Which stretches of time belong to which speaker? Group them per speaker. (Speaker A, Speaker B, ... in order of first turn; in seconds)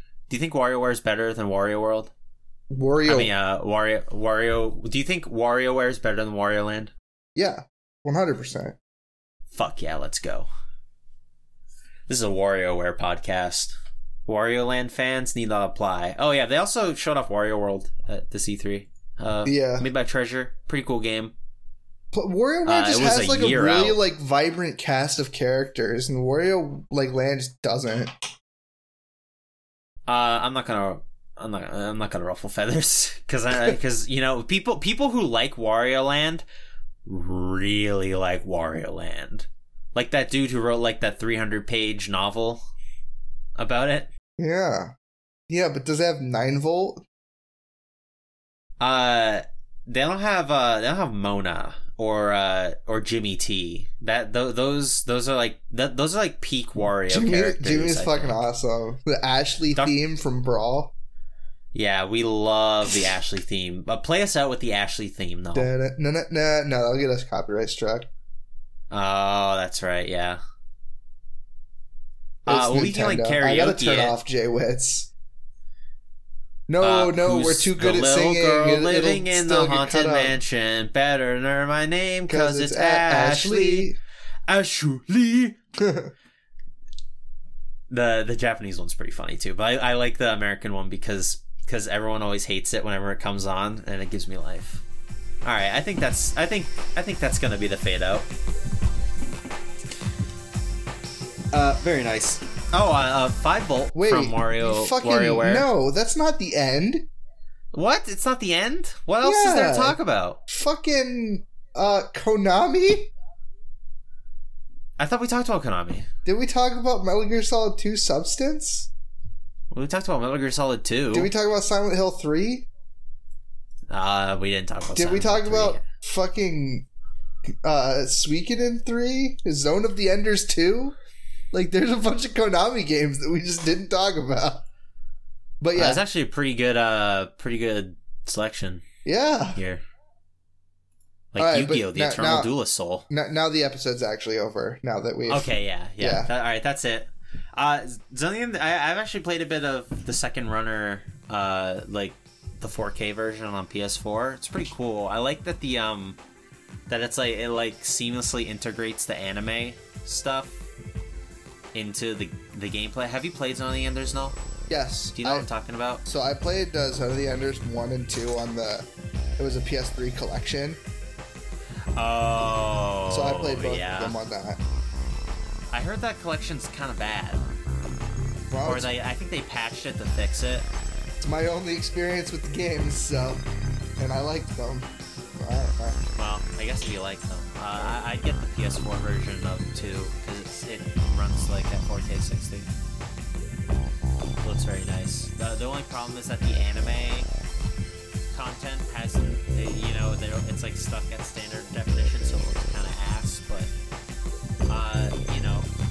Speaker A: 0.3-2.1, 3.0-6.9, 9.5-10.5, 12.1-13.7, 14.3-21.3, 22.6-24.0, 30.1-36.5, 37.1-42.6, 43.6-44.1, 48.8-58.4, 61.7-65.7, 68.9-70.4, 72.5-74.2, 76.8-83.9, 84.5-85.6, 87.9-94.8, 95.4-98.3, 101.5-105.7, 107.7-110.4, 115.0-116.1, 119.7-121.3, 123.9-125.8, 135.8-138.8, 139.6-139.8, 141.3-143.1, 145.3-156.2, 156.9-160.7, 161.7-164.4, 165.2-166.0, 172.0-174.2, 175.7-177.4, 178.6-180.7, 186.2-192.7, 194.4-197.3, 198.3-203.7, 204.7-205.7
Speaker B: 2.7-3.3, 7.4-8.8, 19.4-19.9, 22.1-28.1, 44.4-44.9, 45.5-47.0, 57.1-60.9, 65.5-68.1, 72.5-75.1, 76.7-80.4, 82.3-84.0, 85.8-86.1, 104.0-107.1, 109.2-113.1, 116.2-118.9, 121.1-122.7, 124.9-126.9, 127.6-130.9, 131.5-134.6, 135.6-136.0, 139.1-139.6, 141.4-142.5, 143.1-146.3, 164.7-165.5, 166.1-170.8, 173.1-174.6, 178.5-178.9, 181.2-183.4, 184.0-186.0